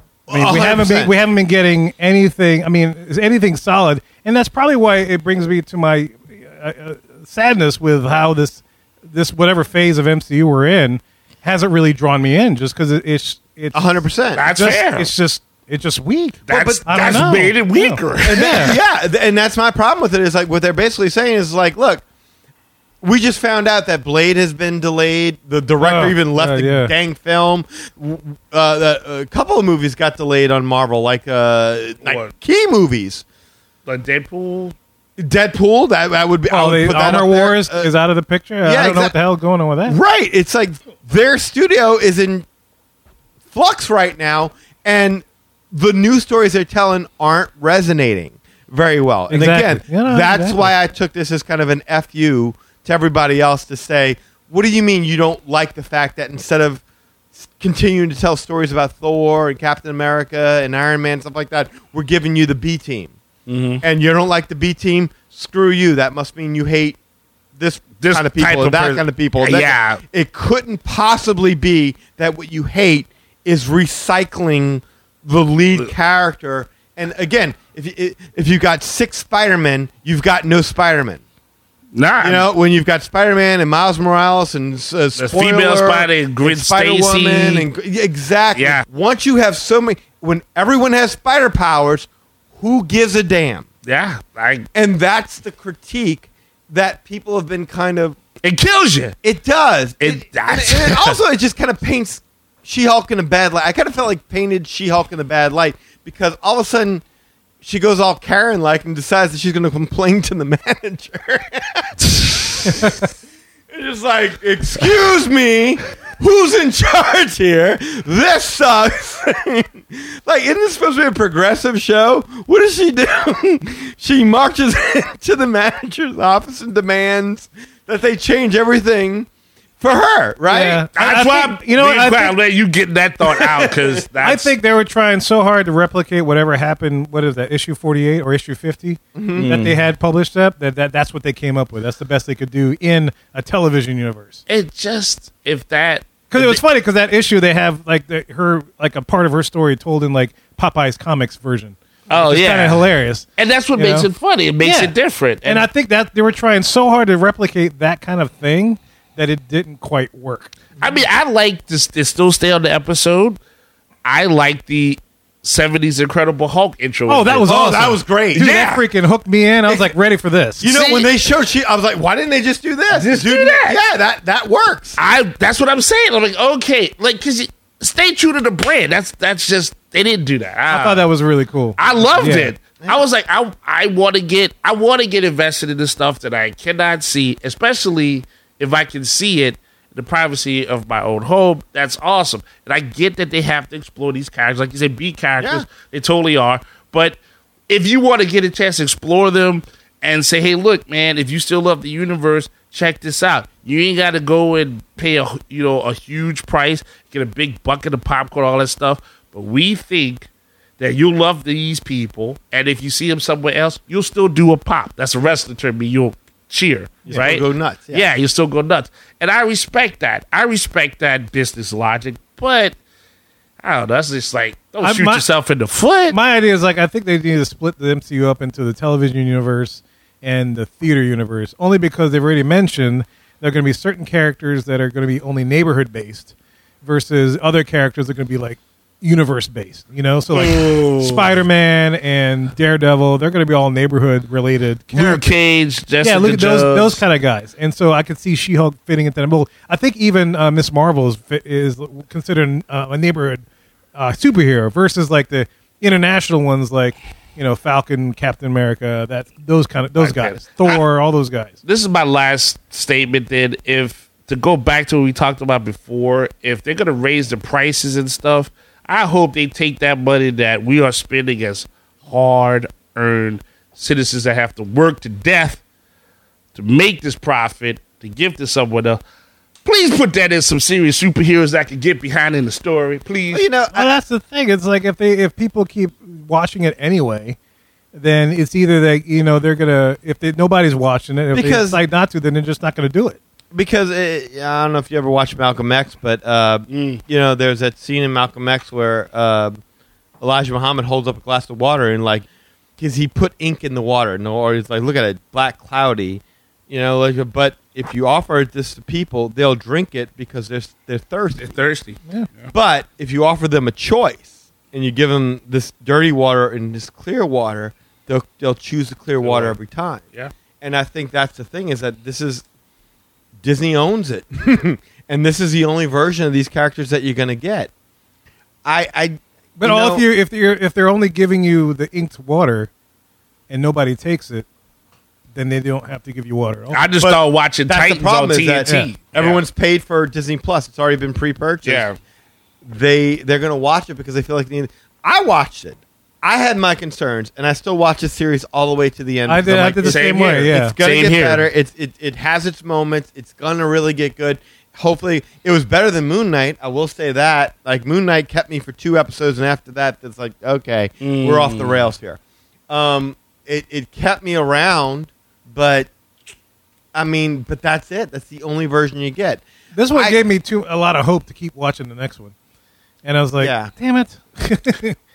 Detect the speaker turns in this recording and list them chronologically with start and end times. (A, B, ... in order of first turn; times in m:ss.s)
0:00.3-0:01.1 A
0:00.3-0:18.8 B
0:13.7-0:14.5 A
0:14.4-0:15.1 C
0:16.5-0:18.8 C
0:16.5-0:17.1 A
0:18.2-0:22.0 A
0:23.0-0:33.2 A
0:25.8-0:26.9 B
0:32.0-0:32.3 C
0:33.9-0:34.8 C
0:35.2-0:37.9 A
0:36.5-0:40.0 B
0:38.6-0:39.2 A
0:39.8-0:42.5 A
0:43.5-0:56.8 A
0:49.3-0:50.7 B
0:57.4-1:03.1 A
1:03.5-1:03.8 C
1:03.8-1:07.0 A
1:07.6-1:21.2 A
1:08.0-1:10.0 C
1:21.9-1:22.5 C
1:22.2-1:33.7 A
1:25.2-1:27.7 C
1:28.6-1:28.8 C
1:33.8-1:34.7 C
1:34.7-1:38.2 A
1:38.4-1:39.2 C
1:39.2-1:47.0 A
1:40.0-1:41.2 C
1:47.6-1:53.0 A
1:53.7-2:09.3 A
2:09.8-2:10.9 A
2:10.5-2:12.4 B
2:10.9-2:14.5 C
2:13.2-2:14.0 A
2:14.2-2:24.4 B
2:19.2-2:19.6 A
2:19.3-2:19.8 C
2:24.5-2:26.6 C
2:26.3-2:34.1 B
2:32.1-2:35.7 C
2:34.6-2:40.5 B
2:40.8-2:43.4 C
2:44.0-2:47.5 C
2:47.1-2:50.7 B
2:47.5-2:48.7 A
2:48.4-2:48.8 C
2:49.7-2:49.9 A
2:50.6-2:55.0 A
2:50.7-2:51.1 C
2:52.9-2:53.8 C
2:55.0-3:01.1 C
3:00.7-3:02.6 B
3:01.8-3:42.8 C
3:02.2-3:03.0 A
3:15.4-3:15.7 A
3:37.1-3:38.1 A
3:43.6-3:46.2 C
3:44.8-3:45.3 B
3:46.1-3:56.3 B
3:56.8-4:05.3 B
4:00.3-4:01.3 C
4:04.9-4:07.0 C
4:06.0-4:13.4 B
4:14.0-4:21.6 B
4:20.0-4:20.8 C
4:21.6-4:35.6 C
4:36.6-4:39.0 C
4:39.6-4:43.4 C
4:43.3-4:43.9 A
4:43.7-4:47.4 B
4:48.0-4:53.2 B
4:51.3-4:51.8 A
4:53.5-4:59.6 A
4:56.7-4:57.0 C
5:00.2-5:02.3 A
5:02.8-5:11.5 A
5:11.4-5:12.5 C
5:12.5-5:20.0 A
5:19.2-5:19.6 C
5:20.6-5:22.4 A
5:23.4-5:27.7 A
5:28.6-5:30.1 A
5:29.6-5:32.7 B
5:33.5-5:34.5 B
5:35.4-5:36.8 B
5:36.7-5:39.4 C
5:37.0-5:41.9 A
5:41.6-5:42.0 C
5:42.6-6:05.9 A
5:49.3-5:50.8 B
5:49.8-5:51.4 C
6:01.0-6:01.8 C
6:06.9-6:10.2 A
6:09.8-6:12.3 B
6:13.0-6:15.0 B
6:13.4-6:13.7 A